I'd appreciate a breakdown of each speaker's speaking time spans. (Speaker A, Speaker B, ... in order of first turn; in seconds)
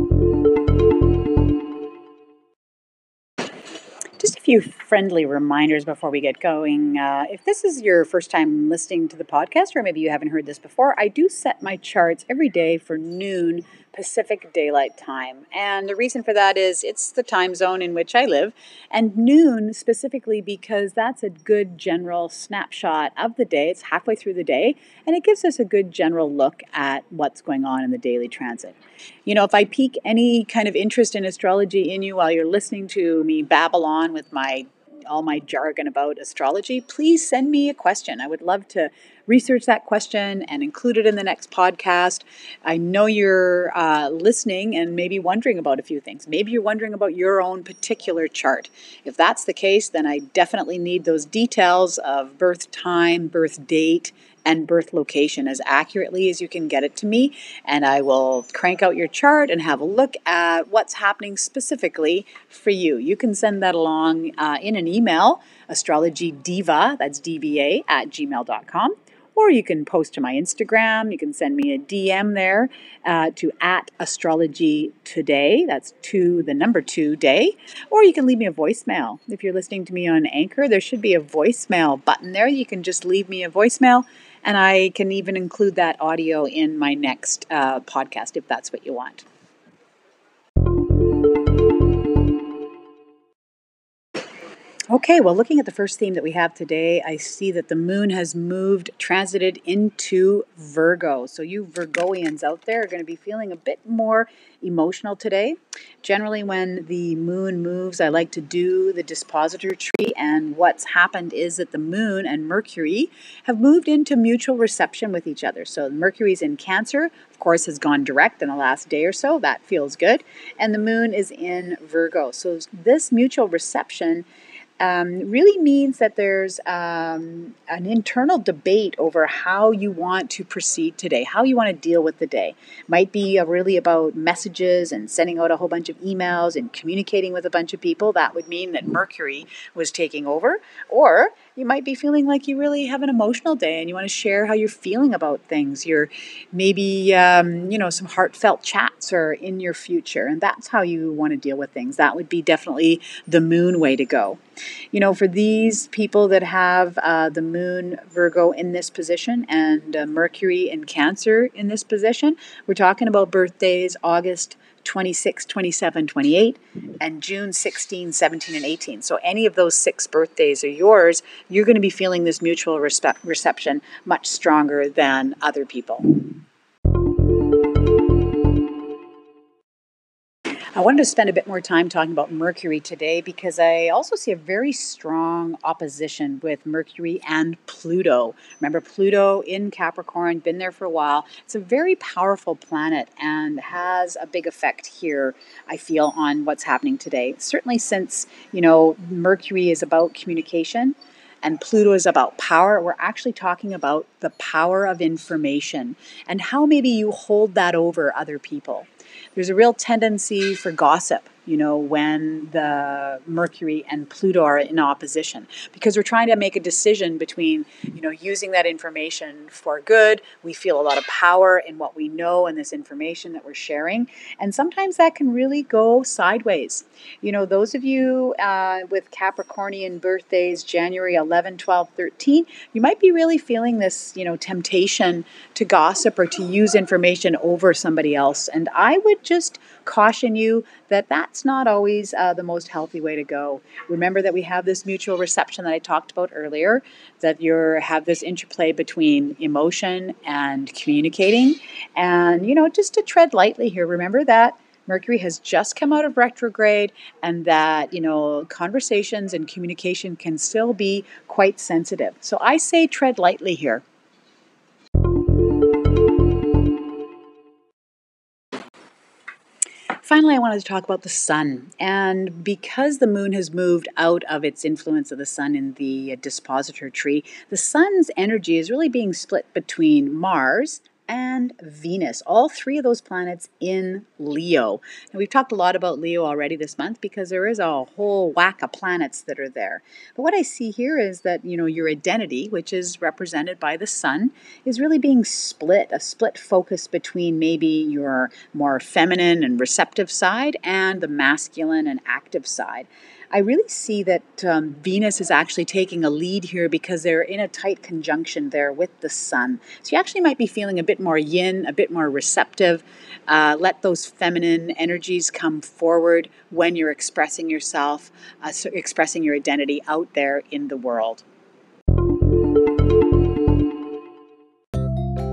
Speaker A: 4.2-89.2, 94.9-124.3, 124.8-154.4, 154.9-176.3, 180.7-263.8, 270.0-321.2